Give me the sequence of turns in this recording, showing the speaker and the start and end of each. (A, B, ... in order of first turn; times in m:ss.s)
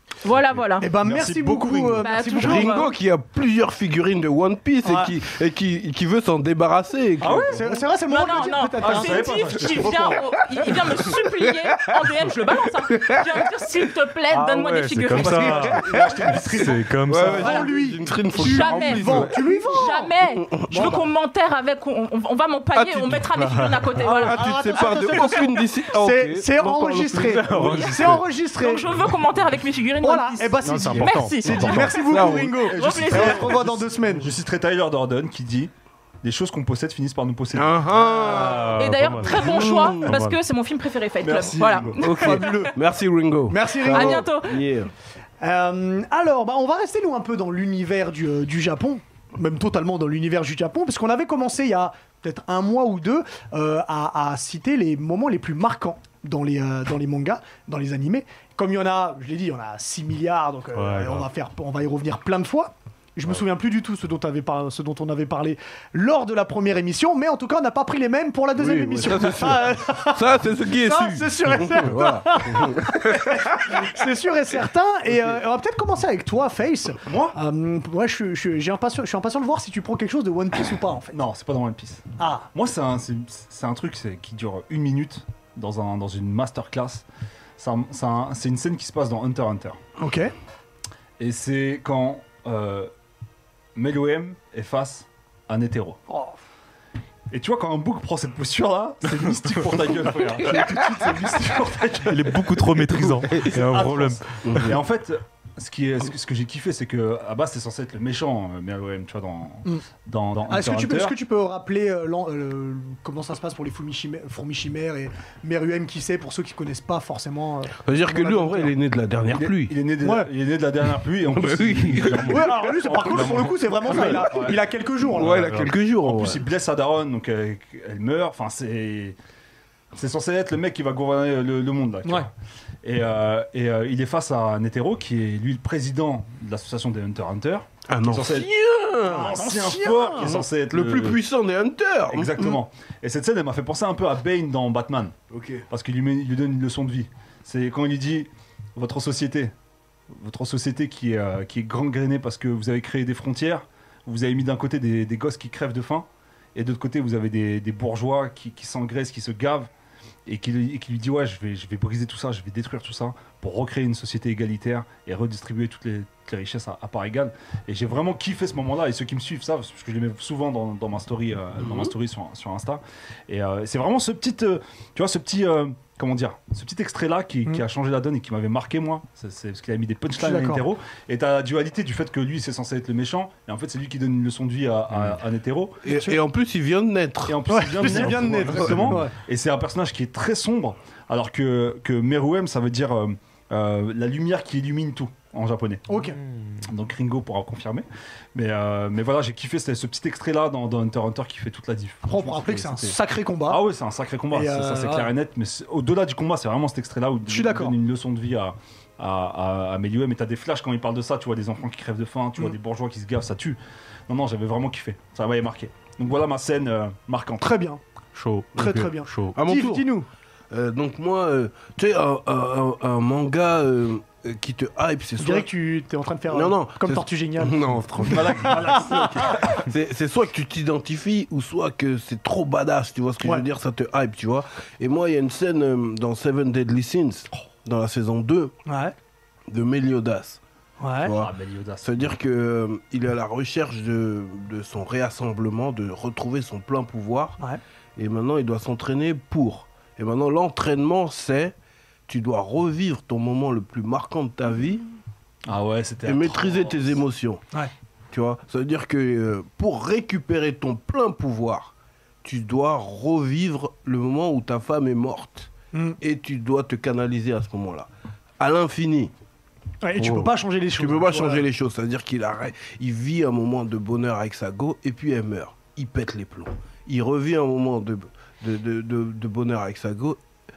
0:00.2-0:00.9 A
0:00.8-0:02.9 B
0:00.9-0:02.1 C
0:02.0-0:02.9 A
0:02.4-0:07.6 D
0:04.8-0:05.1 B
0:07.2-0:07.8 C
0:07.5-0:10.2 B
0:08.1-0:15.8 A
0:08.8-0:10.3 C
0:10.6-0:12.2 D
0:12.9-0:13.5 D
0:14.3-0:17.7 E
0:15.1-0:16.8 C
0:15.9-0:16.3 D
0:17.1-0:21.0 D
0:17.2-0:20.1 B
0:17.4-0:17.7 A
0:18.4-0:25.4 A
0:20.7-0:21.0 B
0:22.8-0:27.9 D
0:23.3-0:23.8 E
0:24.0-0:28.9 B
0:27.2-0:28.2 E
0:27.6-0:32.1 A
0:30.0-0:34.3 B
0:30.6-0:32.0 E
0:31.9-0:32.6 D
0:32.6-0:35.7 C
0:32.7-0:33.6 A
0:36.2-0:38.5 C
0:37.5-0:40.2 D
0:38.3-0:38.6 B
0:38.3-0:40.4 E
0:38.8-0:42.7 A
0:41.2-0:42.0 C
0:42.0-0:44.9 D
0:42.1-0:42.8 B
0:43.5-0:44.3 B
0:43.9-0:44.8 A
0:45.4-1:21.1 B
1:00.8-1:01.3 E
1:08.6-1:14.0 D
1:17.0-1:17.4 C
1:21.1-1:27.1 C
1:22.2-1:22.5 B
1:27.6-1:29.8 C
1:30.0-1:30.3 B
1:31.2-1:32.9 C
1:33.8-1:36.0 C
1:36.1-1:36.4 B
1:37.3-1:42.6 C
1:40.4-1:41.9 B
1:42.0-1:44.7 E
1:43.4-1:51.2 C
1:44.4-1:44.8 D
1:50.5-1:58.7 B
1:57.8-1:59.7 D
1:59.3-2:04.6 C
2:00.0-2:00.3 B
2:01.3-2:02.5 D
2:02.3-2:05.6 B
2:03.9-2:04.4 D
2:05.1-2:06.4 D
2:05.3-2:05.7 E
2:06.0-2:09.2 C
2:09.9-2:12.3 C
2:12.8-2:18.5 C
2:17.9-2:19.4 D
2:19.1-2:20.4 B
2:19.1-2:21.2 C
2:20.2-2:22.6 D
2:22.1-2:25.1 C
2:25.3-2:25.6 D
2:25.7-2:29.5 C
2:30.1-2:39.7 C
2:40.3-3:05.8 C
3:00.2-3:00.7 B
3:05.8-3:08.9 D
3:05.9-3:06.2 B
3:07.2-3:15.9 C
3:07.5-3:09.1 B
3:15.9-3:16.2 B
3:16.2-3:16.7 E
3:16.6-3:37.5 C
3:22.0-3:23.6 B
3:24.3-3:25.1 B
3:27.3-3:27.8 B
3:37.4-3:37.8 B
3:38.1-3:39.3 E
3:38.6-3:40.1 B
3:39.3-3:39.9 D
3:40.5-3:45.5 D
3:45.2-3:49.3 B
3:46.3-3:58.5 D
3:48.0-3:49.6 C
3:58.7-3:58.9 B
3:59.5-4:00.4 D
4:00.8-4:01.1 B
4:01.0-4:07.4 D
4:01.1-4:02.1 C
4:08.0-4:11.5 D
4:12.1-4:14.8 D
4:15.5-4:17.0 C
4:16.0-4:17.4 D
4:18.1-4:27.9 D
4:25.7-4:26.0 B
4:28.4-4:29.1 D
4:29.8-4:31.4 B
4:30.0-4:40.2 D